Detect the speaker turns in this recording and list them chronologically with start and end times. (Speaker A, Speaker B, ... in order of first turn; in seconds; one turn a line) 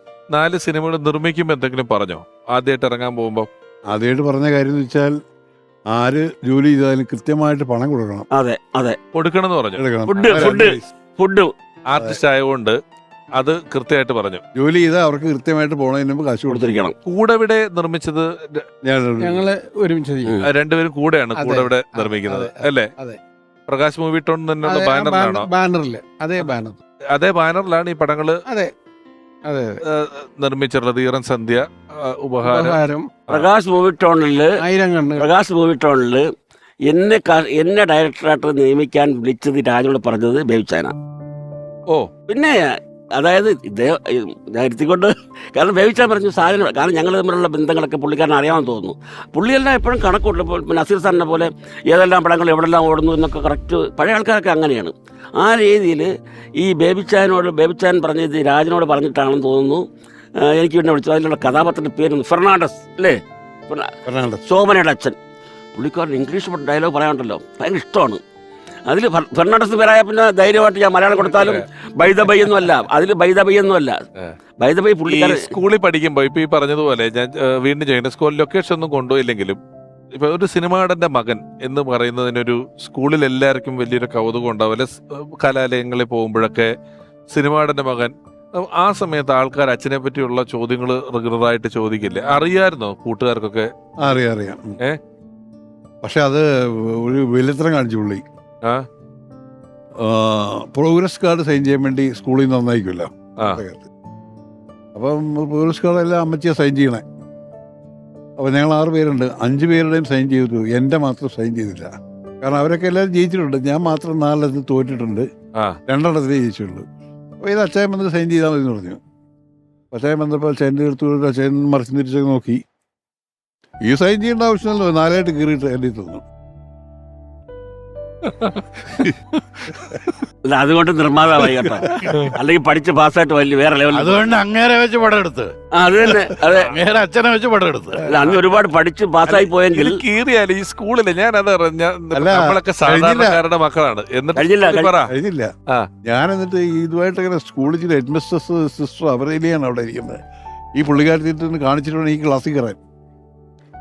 Speaker A: 0.3-3.5
Speaker B: 3.9-5.1
Speaker B: 5.9-8.3
Speaker C: 8.3-9.0
Speaker A: 9.1-10.5
Speaker B: 9.8-10.9
Speaker C: 10.1-11.5
Speaker A: 11.9-12.8
Speaker A: 13.3-14.4
Speaker B: 14.6-16.8
Speaker C: 16.5-16.9
Speaker A: 17.1-18.7
Speaker B: 18.8-19.5
Speaker D: 19.2-20.4
Speaker A: 20.4-22.9
Speaker D: 21.4-23.2
Speaker A: 23.7-25.5
Speaker D: 24.6-26.8
Speaker A: 27.1-28.4
Speaker D: 29.5-29.8
Speaker A: 29.9-33.5
Speaker D: 32.4-33.1
Speaker C: 33.3-34.5
Speaker D: 34.6-35.3
Speaker C: 35.2-36.2
Speaker C: 36.9-40.9
Speaker C: 42.3-42.6
Speaker C: 43.2-59.8
Speaker C: 60.4-63.2
Speaker B: 64.1-64.4
Speaker C: 64.5-65.2
Speaker C: 65.8-68.2
Speaker C: 68.9-74.0
Speaker A: 71.2-71.6
Speaker C: 74.6-75.5
Speaker A: 75.1-79.6
Speaker A: 80.2-86.7
Speaker A: 87.3-93.7
Speaker B: 94.0-94.8
Speaker B: 96.0-98.2
Speaker B: 100.0-103.9
Speaker B: 105.0-107.0
Speaker B: 108.4-115.3
Speaker B: 115.9-116.8
Speaker B: 117.4-119.0
Speaker B: 119.9-122.6
Speaker B: 123.9-126.2
Speaker A: 128.3-129.1
Speaker C: 130.5-134.3
Speaker A: 132.0-132.3
Speaker E: 133.9-135.5
Speaker C: 135.8-136.8
Speaker E: 136.5-138.1
Speaker C: 138.1-140.0
Speaker A: 139.3-145.1
Speaker B: 142.1-143.4
Speaker C: 144.4-144.9
Speaker B: 145.1-145.5
Speaker B: 146.1-150.2
Speaker B: 150.8-152.8